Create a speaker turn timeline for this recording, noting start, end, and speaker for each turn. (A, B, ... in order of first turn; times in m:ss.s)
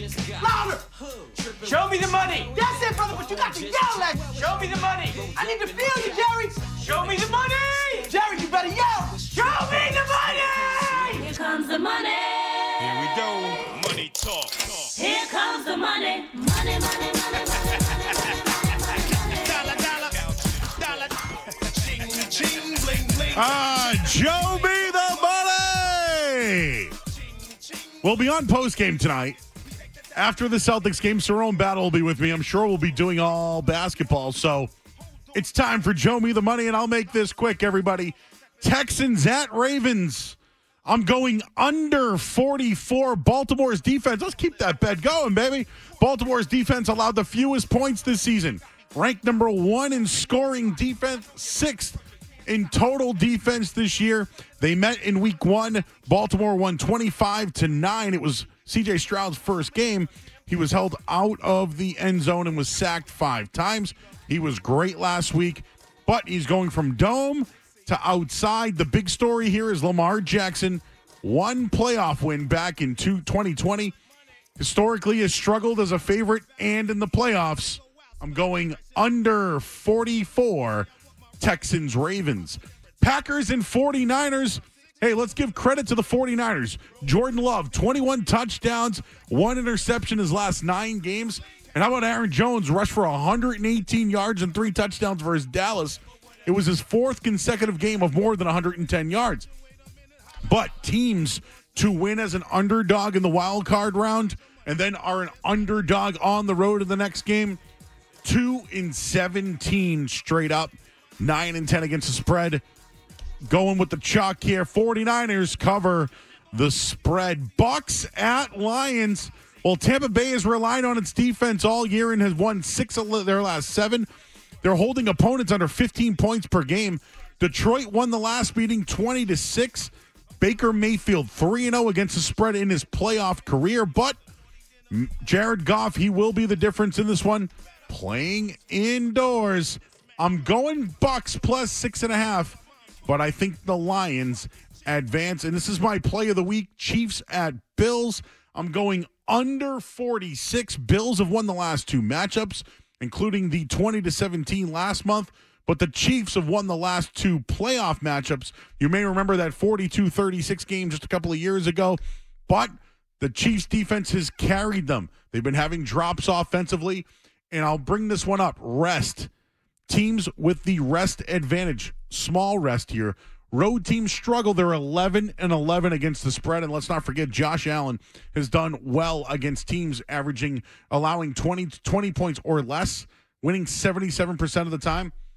0:00.2-0:00.8 A
0:01.6-0:02.5 B
0:02.4-0:04.4 A
0:04.3-0:05.3 B
0:05.2-0:06.8 A
0:06.8-0:08.1 B
0:08.0-0:11.2 A
0:10.1-0:10.4 B
0:11.1-0:13.4 C
0:13.2-0:14.5 D
0:14.9-0:17.9 C
0:19.2-0:19.9 C
0:22.0-0:23.1 D
0:23.2-0:26.9 E
0:28.0-0:29.4 E
0:30.1-0:34.7 E
0:35.3-1:13.9 E
1:14.6-1:39.5 E
1:40.4-1:47.6 E
1:48.2-1:52.6 E
1:53.4-2:04.1 E
2:04.6-2:14.2 E
2:14.9-2:49.3 E
2:49.9-3:05.1 E